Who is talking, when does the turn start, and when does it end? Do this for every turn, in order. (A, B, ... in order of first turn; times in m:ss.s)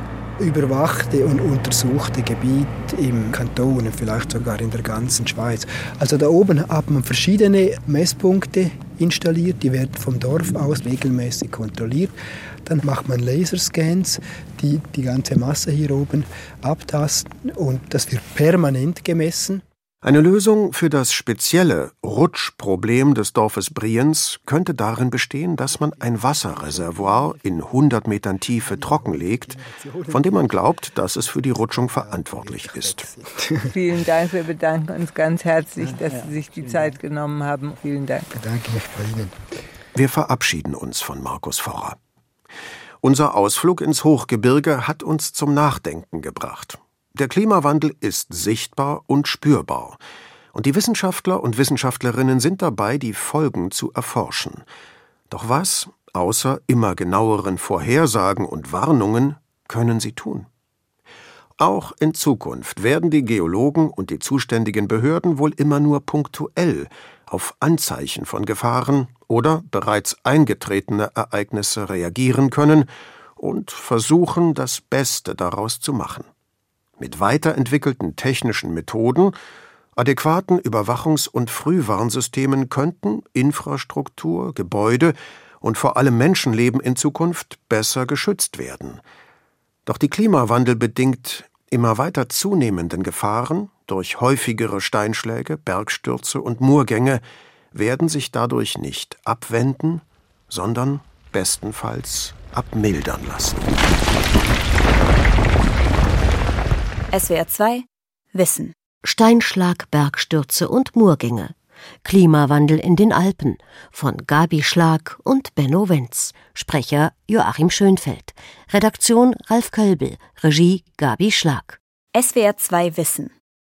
0:00.4-0:12.1 A
0:12.6-0:19.6 A
0:20.0-0:33.1 B
0:25.7-0:27.8 A
0:28.5-0:34.0 A
0:33.7-0:38.3 C
0:35.8-0:36.9 A
0:38.3-0:39.4 A
0:40.0-0:42.0 B
0:43.0-0:50.0 B
0:50.5-0:54.6 B
0:55.3-1:00.5 B
1:01.6-1:16.3 B
1:17.0-1:19.4 B
1:20.0-1:29.0 B
1:29.9-1:43.7 B
1:47.1-1:48.7 D
1:49.0-2:01.8 E
2:02.1-2:03.3 D